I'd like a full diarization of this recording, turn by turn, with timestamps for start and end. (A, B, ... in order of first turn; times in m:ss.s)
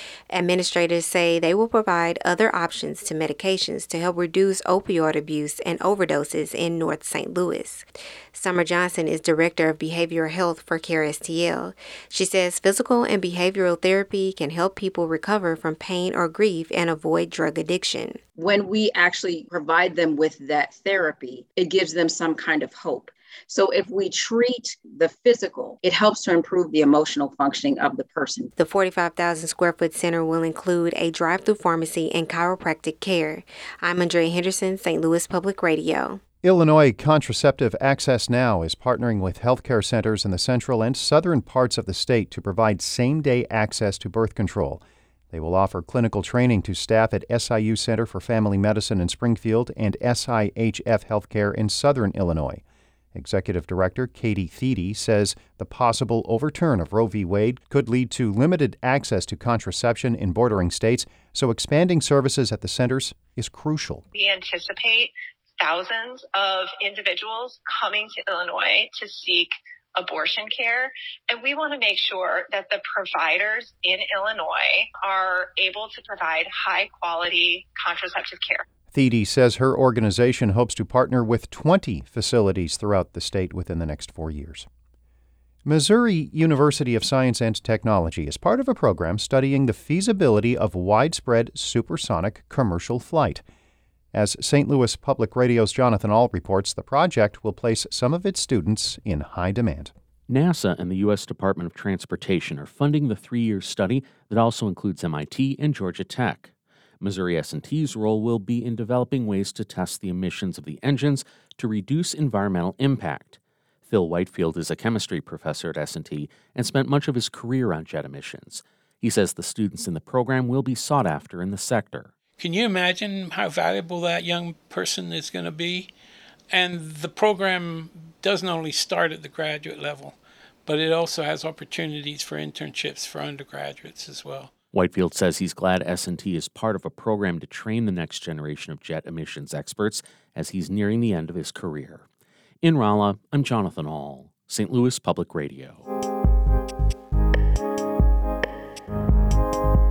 0:00.3-0:18.2 A
0:18.4-0:28.4 B
0:28.6-0:36.2 A
0:36.4-0:52.6 C
0:53.1-1:04.0 C
1:04.1-1:18.6 D
1:18.9-1:24.6 C
1:25.6-1:33.4 C
1:34.1-1:39.9 C
1:40.3-1:46.5 E
1:47.0-2:02.1 E
2:02.4-2:05.9 F
2:06.5-2:10.1 F
2:10.6-2:14.5 F
2:14.7-2:22.0 E
2:22.6-2:25.8 E